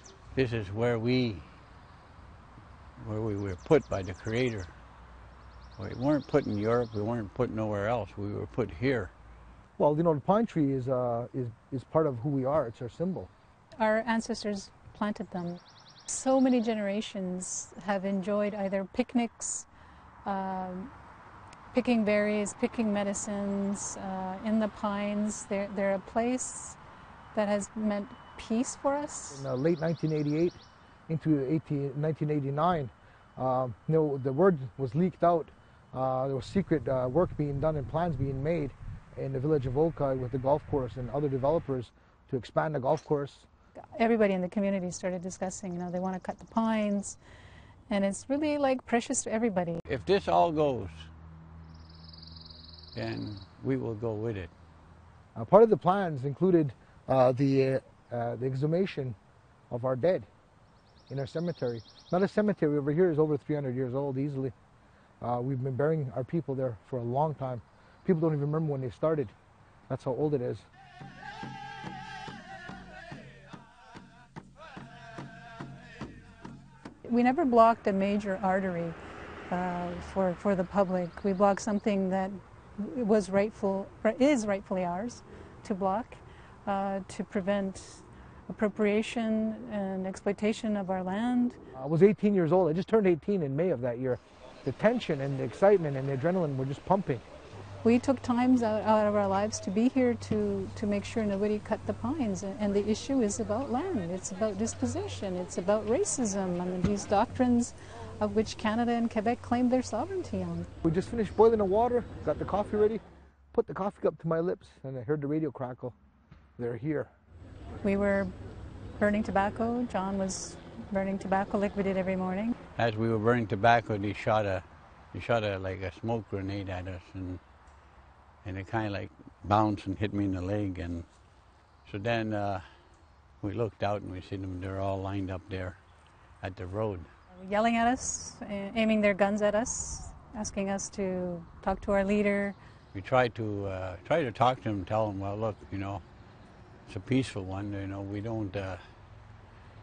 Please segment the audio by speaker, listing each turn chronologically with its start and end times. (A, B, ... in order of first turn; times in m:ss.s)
0:00.3-0:01.5 A
0:03.0-0:04.7 A
0:05.8-0:09.1 A
0:09.8-0:13.3 B
0:13.8-0:19.7 C
0:20.2-0:20.9 C
0:21.7-0:26.8 C
0:27.3-0:29.4 C
0:29.3-0:43.5 B
0:43.8-0:47.2 C
0:47.9-0:49.8 C
0:49.8-0:51.1 A
0:52.9-0:54.5 A
0:55.3-0:59.2 B
0:59.7-1:00.3 B
1:01.1-1:04.5 B
1:05.2-1:09.3 B
1:09.9-1:10.6 B
1:17.0-1:19.0 C
1:19.5-1:31.6 C
1:31.7-1:37.2 B
1:37.8-1:50.7 C
1:50.8-1:53.0 B
1:53.5-1:55.9 B
1:56.6-1:57.1 B
1:57.8-1:58.3 C
1:59.0-2:02.5 C
2:02.8-2:07.4 A
2:08.4-2:11.1 A
2:11.8-2:12.6 A
2:13.4-2:15.8 A
2:16.4-2:17.1 A
2:17.4-2:22.6 C
2:22.9-2:26.0 A
2:26.9-2:28.8 A